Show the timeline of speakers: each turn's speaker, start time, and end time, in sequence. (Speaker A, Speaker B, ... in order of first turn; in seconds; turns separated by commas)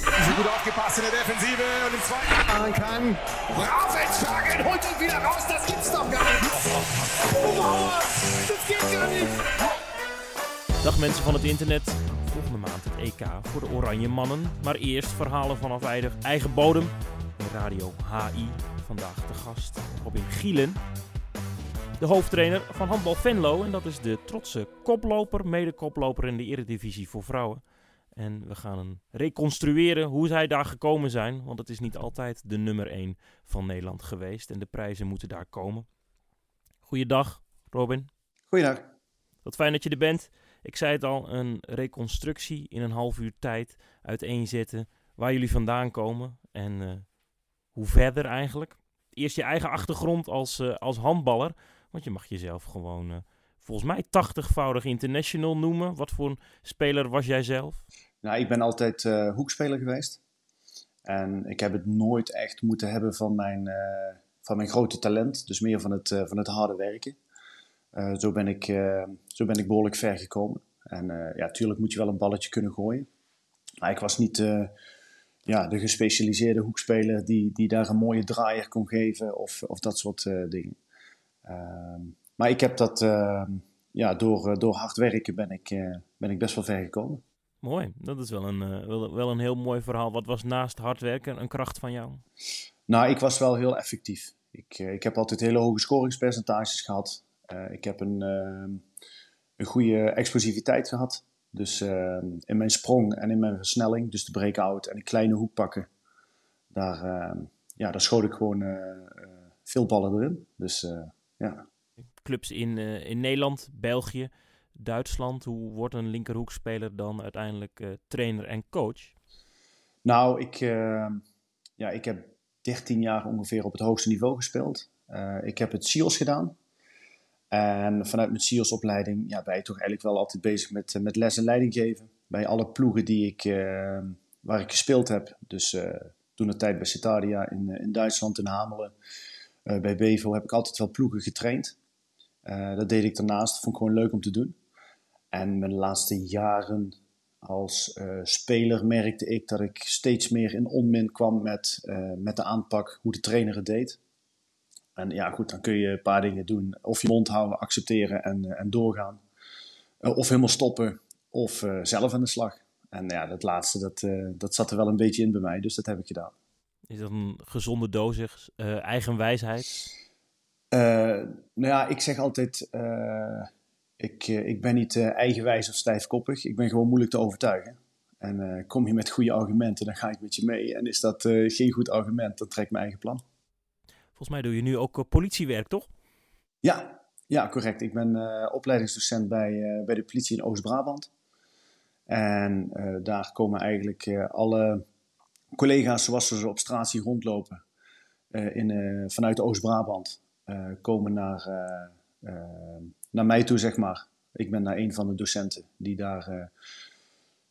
Speaker A: 0.1-9.5, Speaker B: 10.8-20.8, Speaker B: 22.0-27.6, Speaker B: 28.1-35.9, Speaker B: 36.9-38.1, Speaker C: 38.5-38.9, Speaker B: 39.4-47.1, Speaker B: 47.7-57.8, Speaker C: 58.2-60.2, Speaker C: 61.0-67.2, Speaker C: 67.9-73.1, Speaker C: 73.8-74.7, Speaker C: 75.5-80.8, Speaker C: 81.4-87.2, Speaker B: 87.6-92.2, Speaker C: 92.9-98.8, Speaker C: 99.6-105.9, Speaker C: 106.7-111.6, Speaker B: 112.2-119.1, Speaker C: 120.0-121.2, Speaker C: 121.8-126.6, Speaker C: 127.5-138.9, Speaker C: 139.7-141.8, Speaker C: 142.4-144.6, Speaker C: 145.3-154.0, Speaker C: 154.9-159.2, Speaker C: 160.0-166.3, Speaker B: 166.9-169.9, Speaker C: 170.7-183.2, Speaker B: 184.2-185.9, Speaker C: 186.6-191.1, Speaker C: 192.1-194.8, Speaker C: 195.5-197.6, Speaker C: 198.3-206.5